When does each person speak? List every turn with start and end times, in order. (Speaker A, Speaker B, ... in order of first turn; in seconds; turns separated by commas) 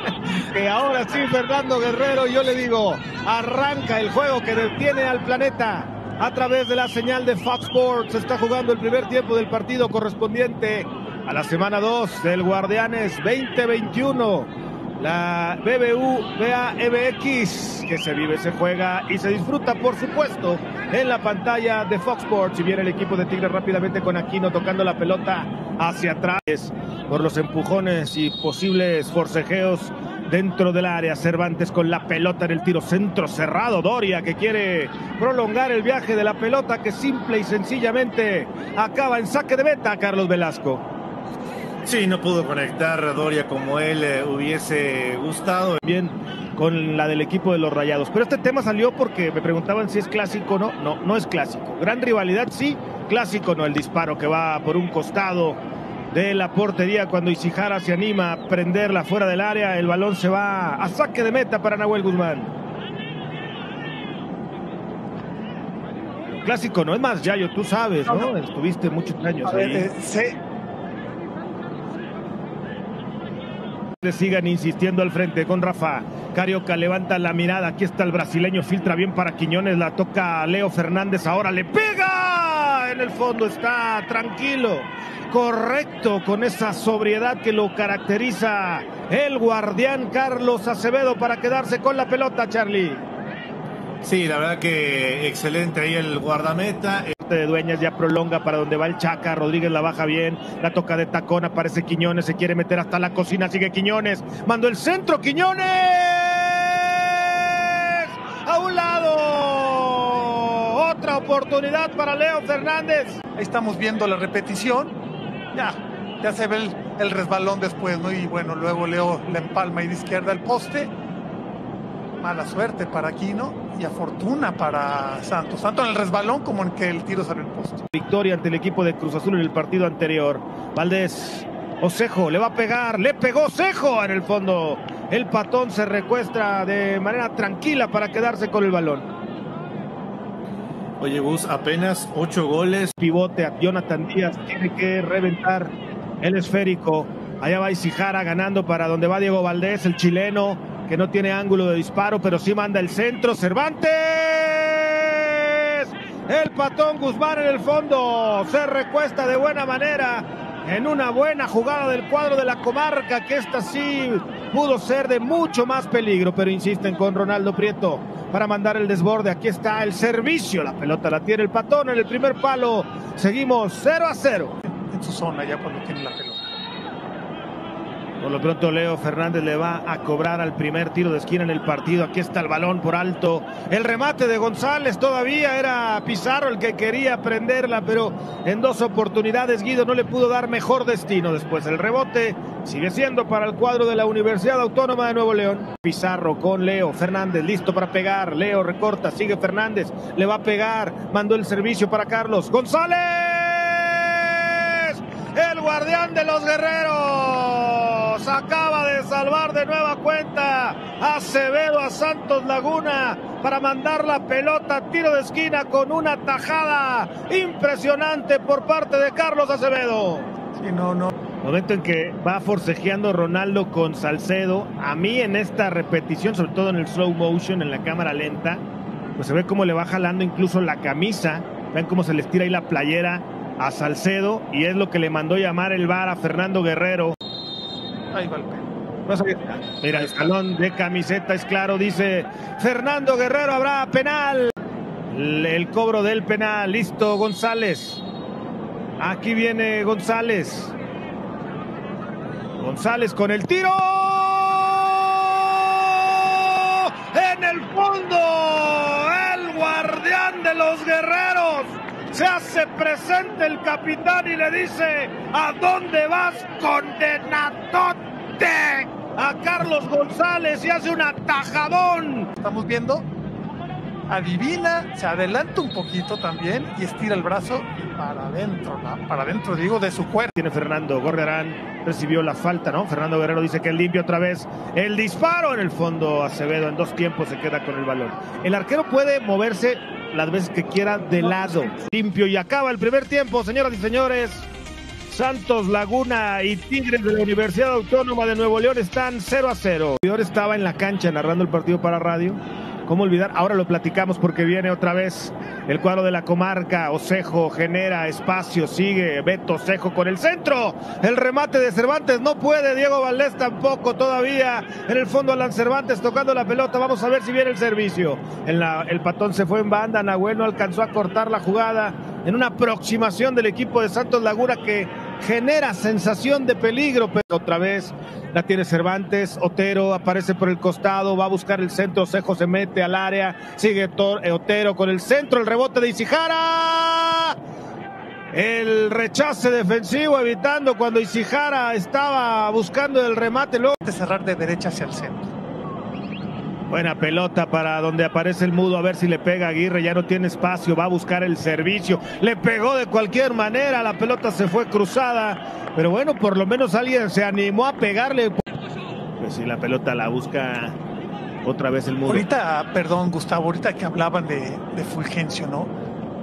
Speaker A: 0.3-40.8, Speaker B: 41.8-45.8, Speaker A: 45.8-55.6, Speaker A: 56.1-62.5, Speaker A: 66.4-69.9, Speaker C: 69.4-70.3, Speaker A: 74.0-93.0, Speaker B: 94.0-97.2, Speaker A: 97.2-113.2, Speaker C: 113.3-115.0, Speaker C: 115.5-120.9, Speaker C: 122.2-127.8, Speaker A: 127.9-139.1, Speaker B: 141.0-142.9, Speaker A: 143.0-174.6, Speaker C: 174.8-176.4, Speaker A: 178.2-220.3, Speaker C: 220.6-221.1, Speaker A: 221.4-228.6, Speaker A: 229.2-237.2, Speaker C: 238.1-238.7, Speaker A: 239.1-244.5, Speaker C: 239.9-240.3, Speaker A: 245.1-248.0, Speaker A: 249.0-250.7, Speaker A: 252.6-272.3, Speaker C: 272.4-273.1, Speaker C: 274.1-280.3, Speaker A: 280.4-294.5, Speaker C: 291.3-291.7, Speaker A: 295.1-337.4, Speaker A: 338.3-343.8, Speaker C: 343.8-345.3, Speaker A: 346.7-358.4, Speaker A: 359.2-360.8, Speaker A: 361.4-362.3, Speaker C: 362.1-365.7